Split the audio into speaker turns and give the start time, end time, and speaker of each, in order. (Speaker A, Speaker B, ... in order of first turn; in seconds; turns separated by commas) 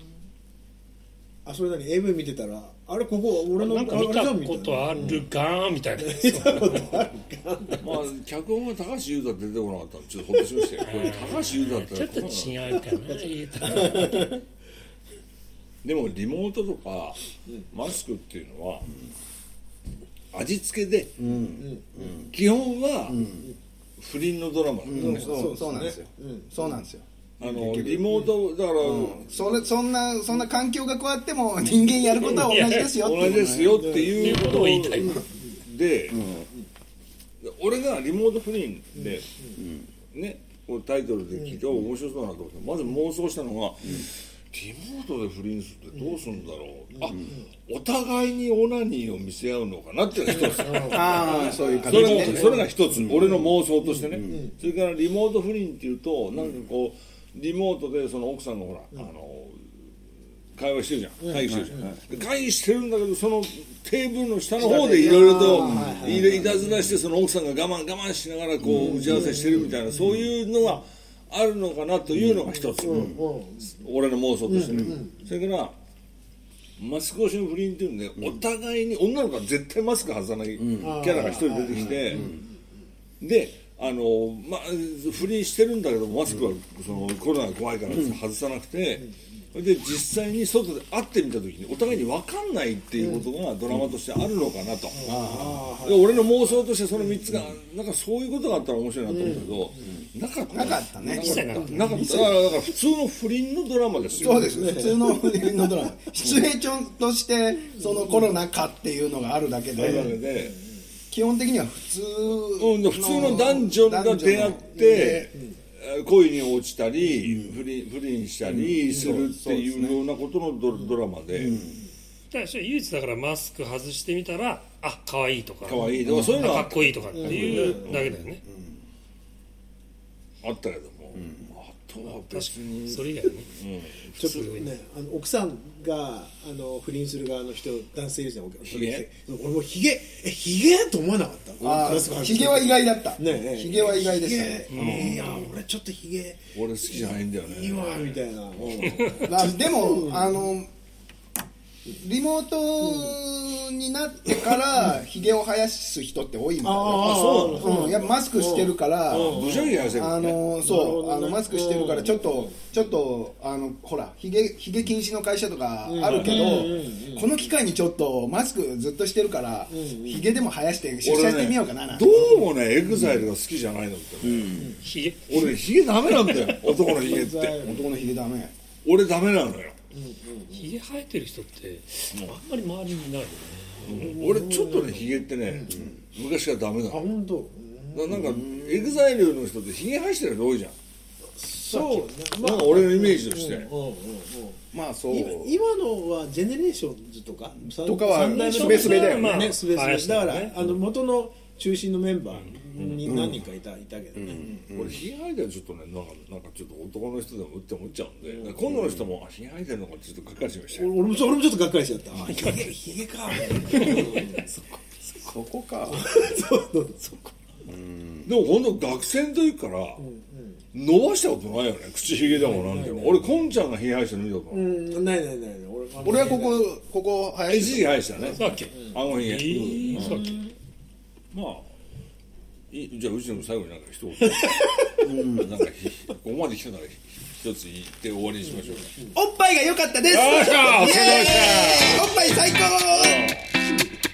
Speaker A: 1.4-5.3, Speaker B: 3.6-7.0, Speaker A: 6.0-7.9, Speaker C: 7.8-12.6, Speaker B: 10.8-14.4, Speaker A: 13.6-14.3, Speaker C: 15.8-18.9, Speaker C: 20.3-21.2, Speaker D: 21.2-22.3, Speaker A: 21.6-21.8, Speaker C: 22.2-23.2, Speaker D: 23.1-23.5, Speaker C: 24.0-25.3, Speaker D: 24.8-28.1, Speaker A: 24.9-26.5, Speaker C: 27.4-29.5, Speaker A: 27.9-28.3, Speaker D: 28.8-33.9, Speaker B: 32.3-33.0, Speaker C: 32.9-36.5, Speaker A: 33.7-34.4, Speaker B: 34.0-35.2, Speaker C: 37.4-39.3, Speaker C: 40.1-59.6, Speaker A: 46.9-47.4, Speaker A: 50.3-54.5, Speaker D: 50.9-53.5, Speaker C: 60.5-73.2, Speaker A: 61.2-62.0, Speaker A: 64.6-66.8, Speaker D: 65.2-66.4, Speaker D: 68.6-69.0, Speaker A: 68.7-70.3, Speaker A: 72.5-73.8, Speaker D: 72.9-73.2, Speaker C: 73.8-75.8, Speaker A: 74.5-75.2, Speaker C: 76.8-82.4, Speaker D: 80.6-80.9, Speaker A: 80.8-82.4, Speaker D: 82.1-82.4, Speaker C: 83.2-95.1, Speaker A: 93.0-93.3, Speaker A: 94.9-96.5, Speaker D: 95.0-95.7, Speaker C: 95.8-104.6, Speaker A: 99.1-99.6, Speaker D: 100.5-102.4, Speaker B: 101.0-102.0, Speaker A: 101.6-102.0, Speaker D: 104.2-110.2, Speaker A: 104.2-105.8, Speaker C: 109.8-110.6, Speaker A: 109.8-110.5, Speaker D: 111.1-115.3, Speaker C: 112.6-121.7, Speaker D: 117.3-117.5, Speaker D: 118.5-120.0, Speaker A: 118.9-119.2, Speaker D: 121.3-121.8, Speaker B: 122.3-128.4, Speaker C: 125.6-128.2, Speaker D: 126.1-126.4, Speaker A: 127.1-128.0, Speaker C: 130.4-134.1, Speaker B: 132.3-133.5, Speaker B: 134.2-134.7, Speaker A: 134.2-150.4, Speaker C: 138.7-139.1, Speaker D: 141.6-145.3, Speaker B: 144.7-145.4, Speaker C: 144.8-145.5, Speaker C: 146.5-149.3, Speaker D: 149.2-150.7, Speaker D: 152.0-172.5, Speaker A: 152.8-153.1, Speaker A: 156.6-159.9, Speaker C: 156.9-158.0, Speaker C: 159.1-160.4, Speaker A: 160.6-162.5, Speaker A: 165.8-167.3, Speaker C: 166.1-166.7, Speaker A: 169.7-170.3, Speaker C: 171.0-174.8, Speaker D: 174.2-174.7, Speaker B: 174.8-176.8, Speaker C: 175.3-177.7, Speaker A: 176.8-177.9, Speaker D: 177.6-178.5, Speaker C: 178.8-179.8, Speaker A: 179.9-180.7, Speaker B: 180.5-184.2, Speaker C: 183.8-187.1, Speaker A: 183.9-185.8, Speaker A: 186.9-188.4, Speaker C: 187.9-190.7, Speaker D: 188.1-188.9, Speaker A: 191.4-204.6, Speaker C: 191.7-193.7, Speaker D: 194.7-195.6, Speaker D: 197.8-199.5, Speaker B: 198.1-200.5, Speaker C: 202.7-203.3, Speaker D: 203.0-203.4, Speaker D: 204.2-205.0, Speaker C: 204.7-210.9, Speaker A: 208.3-208.6, Speaker A: 210.7-214.8, Speaker B: 212.2-212.7, Speaker B: 213.5-214.4, Speaker D: 215.2-216.2, Speaker A: 215.8-217.3, Speaker D: 217.7-218.2, Speaker C: 218.2-220.0, Speaker A: 220.0-220.6, Speaker C: 220.7-224.7, Speaker A: 222.3-223.3, Speaker A: 224.5-226.7, Speaker D: 226.0-228.4, Speaker C: 227.5-230.2, Speaker B: 228.3-230.4, Speaker A: 229.9-230.5, Speaker C: 231.3-231.7, Speaker C: 232.7-239.0, Speaker A: 234.3-235.0, Speaker D: 235.0-235.5, Speaker D: 239.1-243.3, Speaker C: 240.1-242.1, Speaker C: 242.9-243.5